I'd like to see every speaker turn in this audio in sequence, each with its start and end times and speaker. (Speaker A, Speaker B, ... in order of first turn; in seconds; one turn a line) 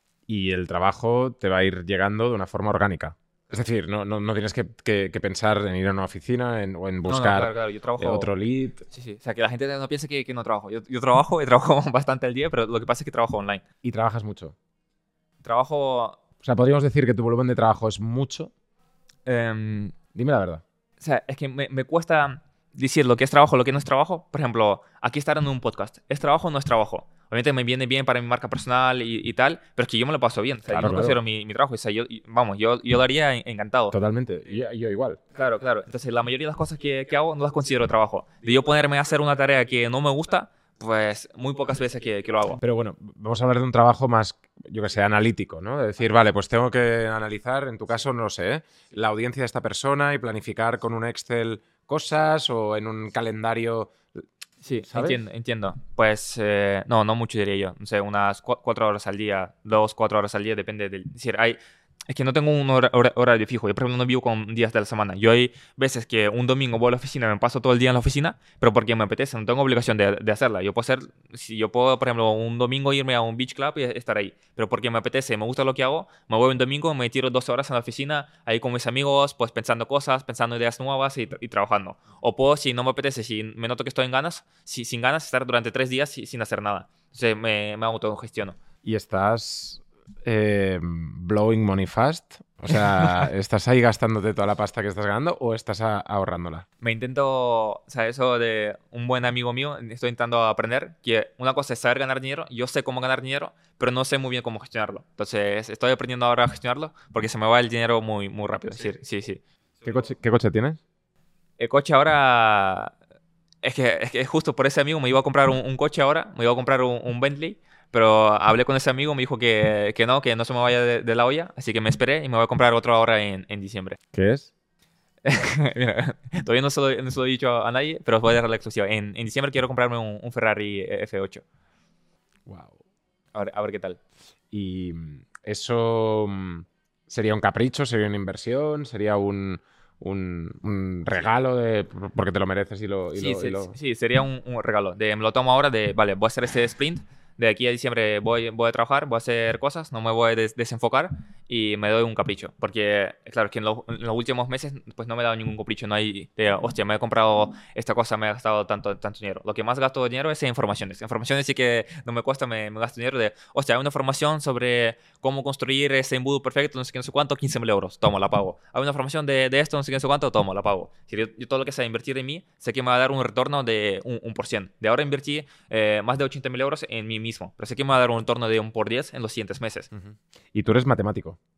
Speaker A: 0.3-8.8
Speaker B: 7.1-8.3
Speaker B: 8.9-13.6
Speaker A: 13.8-14.6
Speaker B: 15.4-16.2
Speaker A: 16.4-18.5
Speaker B: 19.3-19.9
Speaker A: 20.1-20.6
Speaker B: 21.0-34.0
Speaker A: 30.7-31.2
Speaker A: 33.9-35.2
Speaker B: 35.4-42.6
Speaker A: 42.6-54.3
Speaker B: 54.6-61.6
Speaker A: 54.9-55.2
Speaker B: 62.1-88.6
Speaker A: 88.8-96.7
Speaker B: 96.8-109.4
Speaker A: 109.8-110.8
Speaker B: 111.6-113.0
Speaker B: 113.6-124.0
Speaker A: 124.1-124.5
Speaker B: 125.2-131.4
Speaker A: 132.5-132.8
Speaker B: 133.3-134.0
Speaker A: 134.5-143.8
Speaker B: 143.2-179.9
Speaker A: 179.9-181.4